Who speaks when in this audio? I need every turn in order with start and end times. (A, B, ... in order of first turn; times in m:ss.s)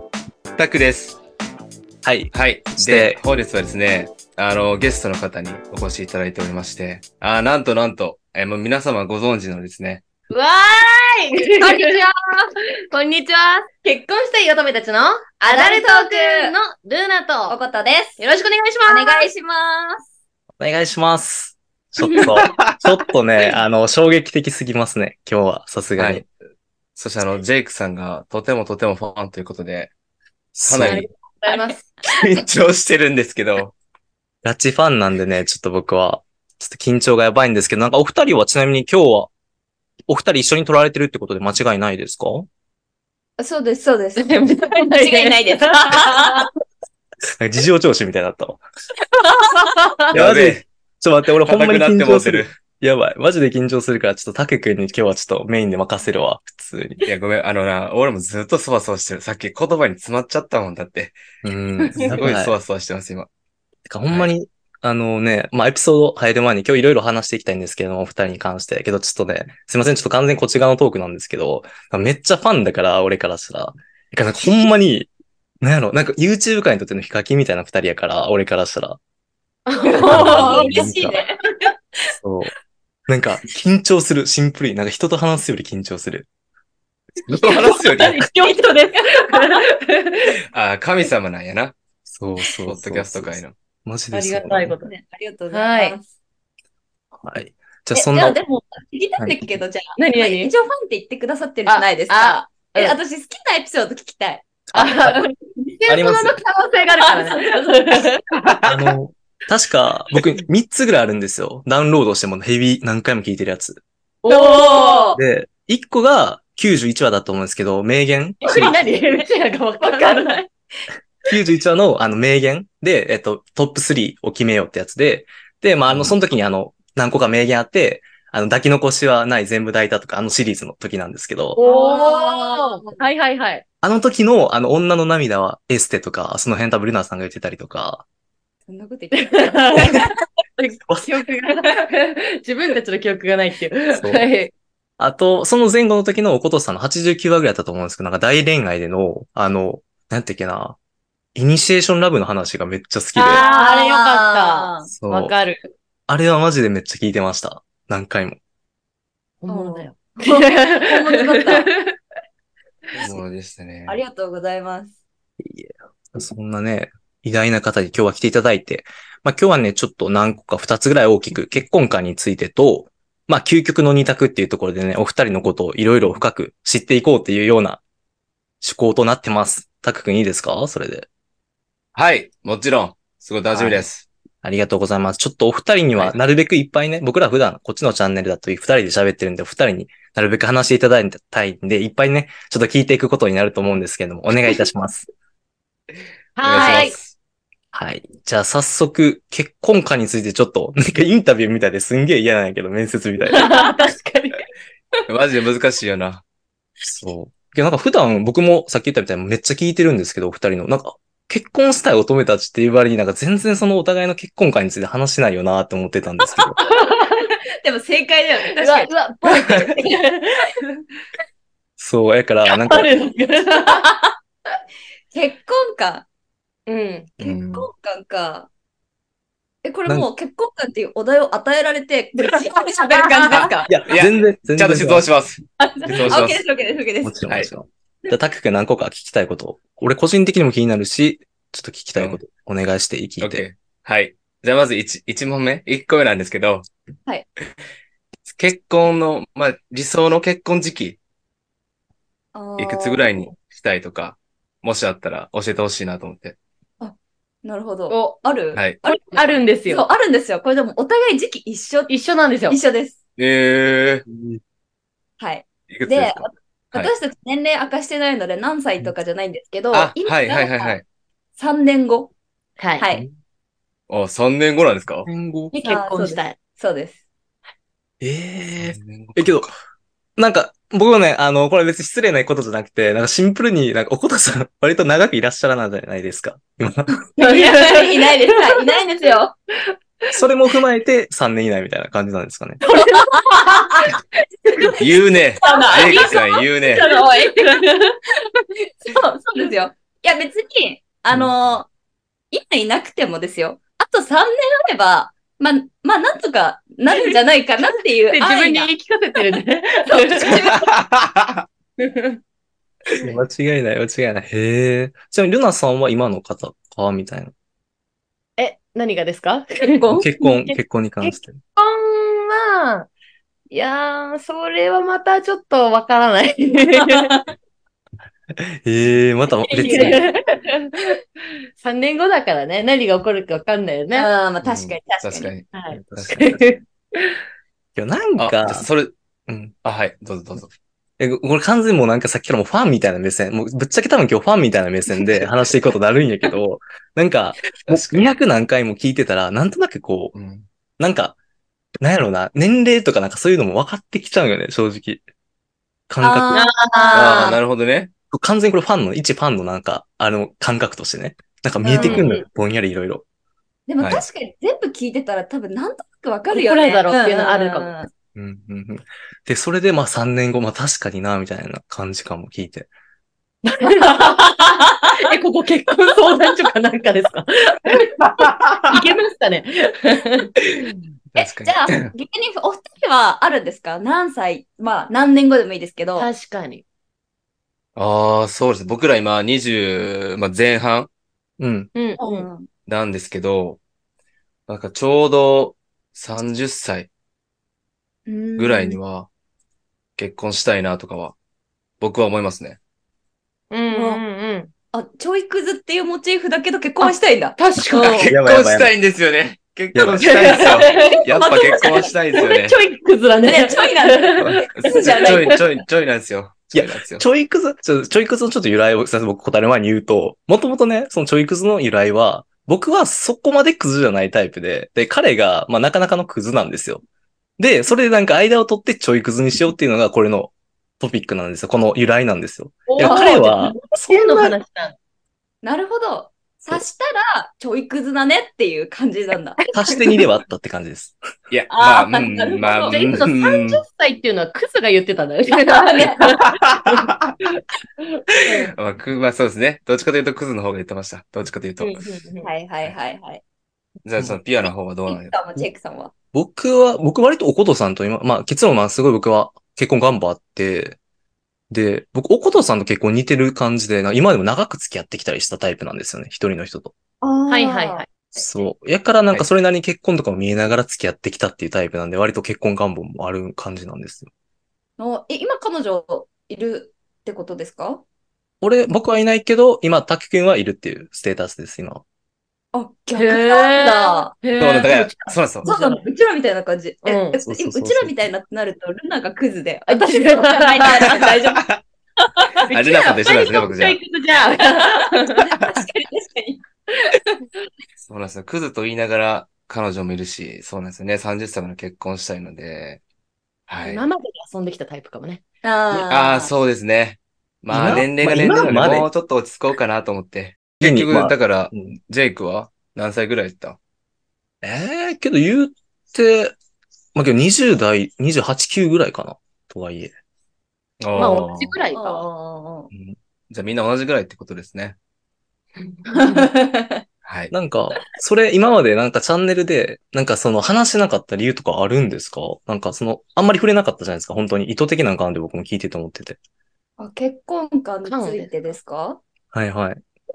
0:00.6-0:01.2 A
0:02.0-0:03.2 B
0:02.3-0:10.0 A
0:10.3-0:12.0 C
0:11.6-0:12.5 D
0:12.9-0:17.6 C
0:15.5-0:16.5 D
0:17.5-0:18.2 D
0:18.2-0:19.3 C
0:18.9-0:20.0 D
0:20.6-0:26.2 B
0:22.0-0:22.4 C
0:22.3-0:22.8 A
0:26.0-0:26.3 A
0:27.0-0:29.9 A
0:30.6-0:31.1 B
0:30.7-0:31.0 A
0:30.8-0:31.9 C
0:32.0-0:33.7 A
0:34.4-0:39.3 B
0:40.1-0:42.5 B
0:43.4-0:46.5 D
0:44.2-0:46.5 C
0:47.4-0:48.6 B
0:49.4-0:50.1 C
0:50.1-0:50.7 A
0:50.1-0:57.0 B
0:51.5-0:52.5 A
0:57.0-1:01.2 A
1:01.4-1:02.6 B
1:02.0-1:03.3 A
1:03.9-1:15.1 B
1:15.6-1:19.0 B
1:19.7-1:21.2 C
1:19.8-1:21.7 D
1:20.1-1:21.2 B
1:22.2-1:22.5 B
1:23.1-1:26.3 B
1:27.3-1:28.2 A
1:27.4-1:29.7 C
1:28.3-1:29.7 D
1:30.5-1:31.8 A
1:32.1-1:34.7 B
1:32.7-1:33.5 A
1:34.1-1:34.9 C
1:34.8-1:36.1 D
1:35.5-1:36.0 C
1:37.2-1:38.4 B
1:37.9-1:44.5 D
1:39.2-1:39.5 B
1:40.0-1:40.5 C
1:41.7-1:43.0 C
1:44.7-1:45.2 B
1:44.7-1:48.2 C
1:45.9-1:46.4 B
1:47.0-1:48.1 D
1:48.5-1:48.7 A
1:48.6-1:53.8 B
1:54.2-1:55.2 C
1:54.3-1:55.2 D
1:55.2-1:58.8 B
1:58.4-2:00.5 C
1:59.8-2:00.4 D
2:01.3-2:11.6 B
2:05.9-2:06.2 A
2:11.6-2:13.6 C
2:11.6-2:13.0 D
2:13.8-2:18.0 B
2:18.7-2:20.1 D
2:19.2-2:24.5 C
2:20.9-2:21.1 B
2:23.9-2:24.3 B
2:25.0-2:30.8 B
2:31.4-2:33.4 B
2:33.2-2:35.7 C
2:33.3-2:34.9 D
2:35.0-2:35.3 B
2:35.1-2:35.3 A
2:36.1-2:38.4 B
2:39.4-2:42.0 C
2:39.5-2:41.7 D
2:43.0-2:44.0 A
2:43.9-2:45.0 D
2:45.4-2:57.8 B
2:58.6-3:01.1 B
3:02.0-3:04.1 A
3:03.5-3:03.8 B
3:04.4-3:15.1 B
3:16.4-3:17.0 C
3:16.4-3:17.1 A
3:16.5-3:16.9 D
3:17.7-3:23.5 B
3:23.3-3:24.5 C
3:25.1-3:26.2 A
3:26.8-3:36.6 B
3:36.6-3:37.3 C
3:37.2-3:39.7 D
3:38.5-3:40.5 C
3:41.8-3:42.9 B
3:42.5-3:43.9 C
3:43.6-3:44.0 D
3:45.1-3:46.1 D
3:46.7-3:47.1 C
3:47.2-3:47.7 A
3:47.2-3:48.5 D
3:49.6-3:53.7 D
3:52.3-3:53.7 C
3:53.3-3:56.4 A
3:53.7-3:55.1 B
3:55.6-3:57.2 D
3:56.0-3:56.3 B
3:57.0-4:03.4 B
4:03.2-4:06.7 A
4:08.3-4:11.0 A
4:12.3-4:13.3 D
4:12.6-4:16.4 A
4:16.8-4:22.0 D
4:17.9-4:18.2 C
4:18.8-4:19.9 C
4:21.9-4:22.6 C
4:22.5-4:23.0 D
4:23.2-4:24.0 A
4:24.1-4:24.4 B
4:25.2-4:30.8 D
4:25.7-4:26.9 A
4:29.7-4:30.8 A
4:31.4-4:32.1 D
4:32.6-4:32.9 C
4:32.8-4:33.0 D
4:33.9-4:35.1 A
4:35.1-4:35.6 B
4:35.5-4:36.4 C
4:35.6-4:37.0 D
4:38.0-4:39.5 B
4:38.6-4:39.5 A
4:40.2-4:47.0 B
4:47.2-4:49.3 D
4:47.2-4:49.2 C
4:50.1-4:52.6 B
4:52.6-4:54.0 C
4:52.7-5:01.7 D
4:54.8-4:56.8 A
4:55.4-4:57.7 C
5:02.3-5:08.7 D
5:06.9-5:07.1 C
5:08.1-5:10.5 C
5:09.9-5:10.7 D
5:10.5-5:11.4 A
5:11.8-5:12.2 C
5:13.0-5:17.3 B
5:18.4-5:19.9 C
5:19.6-5:20.1 D
5:19.9-5:21.4 B
5:20.5-5:22.9 C
5:23.5-5:27.2 C
5:26.8-5:27.2 D
5:28.4-5:30.0 B
5:29.5-5:31.0 C
5:31.6-5:34.1 C
5:33.9-5:35.3 D
5:34.4-5:36.4 A
5:35.5-5:37.2 C
5:35.7-5:36.3 B
5:37.8-5:38.7 B
5:38.2-5:38.9 A
5:39.3-5:39.5 B
5:39.6-5:40.5 A
5:41.0-5:50.1 B
5:47.7-5:48.2 A
5:50.1-5:50.5 A
5:50.8-5:51.2 B
5:51.8-5:55.0 B
5:55.9-5:56.4 B
5:56.0-5:57.4 D
5:56.3-5:57.4 C
5:56.9-5:57.9 A
5:58.1-6:03.0 B
6:01.6-6:02.1 D
6:01.7-6:02.2 C
6:03.7-6:07.9 D
6:06.3-6:07.7 C
6:08.2-6:12.7 B
6:13.4-6:17.9 C
6:13.7-6:14.9 D
6:18.2-6:18.8 A
6:18.6-6:20.3 C
6:20.6-6:21.9 A
6:21.2-6:26.1 D
6:26.0-6:26.6 C
6:27.8-6:30.9 A
6:31.4-6:31.7 B
6:31.8-6:32.3 C
6:32.0-6:32.5 D
6:32.7-6:33.6 A
6:34.5-6:36.9 A
6:38.1-6:38.8 D
6:38.4-6:39.1 A
6:40.0-6:41.2 A
6:41.8-6:42.6 A
6:43.5-6:44.5 C
6:43.7-6:44.0 D
6:44.7-6:48.1 D
6:46.8-6:48.1 C
6:47.7-6:52.6 A
6:48.1-6:48.7 B
6:49.7-6:50.1 B
6:50.0-6:55.4 C
6:50.4-6:51.9 D
6:53.2-6:55.5 D
6:54.2-6:57.0 A
6:56.5-7:06.8 B
7:07.4-7:14.4 B
7:12.7-7:14.8 C
7:12.8-7:13.2 D
7:15.4-7:19.4 D
7:19.5-7:21.0 B
7:21.3-7:23.6 A
7:21.5-7:23.0 D
7:22.5-7:26.8 C
7:25.4-7:26.2 D
7:26.3-7:27.1 A
7:27.8-7:28.5 C
7:28.3-7:31.9 A
7:31.6-7:32.3 C
7:32.2-7:33.2 D
7:33.8-7:35.2 A
7:34.9-7:35.9 D
7:36.1-7:40.8 B
7:41.5-7:46.7 B
7:47.0-7:47.8 D
7:47.3-7:47.9 C
7:48.2-7:54.1 B
7:54.8-7:57.8 D
7:58.4-8:01.8 B
8:02.5-8:04.2 D
8:03.0-8:05.8 C
8:04.4-8:05.5 A
8:05.4-8:11.5 D
8:06.8-8:07.2 C
8:07.2-8:08.0 B
8:09.7-8:11.2 C
8:11.3-8:11.6 A
8:12.0-8:13.5 D
8:12.5-8:15.3 C
8:12.5-8:13.8 A
8:14.6-8:17.2 D
8:17.8-8:22.8 A
8:23.5-8:23.8 A
8:23.6-8:25.2 C
8:25.4-8:26.3 D
8:25.9-8:33.6 A
8:27.5-8:28.9 B
8:30.6-8:31.8 B
8:34.4-8:36.4 B
8:37.0-8:39.9 B
8:40.8-8:41.6 A
8:41.0-8:42.1 C
8:41.0-8:42.7 D
8:43.3-8:44.8 A
8:45.6-8:46.3 C
8:46.0-8:46.8 D
8:47.0-8:47.3 A
8:47.3-8:56.2 B
8:56.8-8:59.0 D
8:57.8-8:58.3 C
8:59.3-8:59.8 B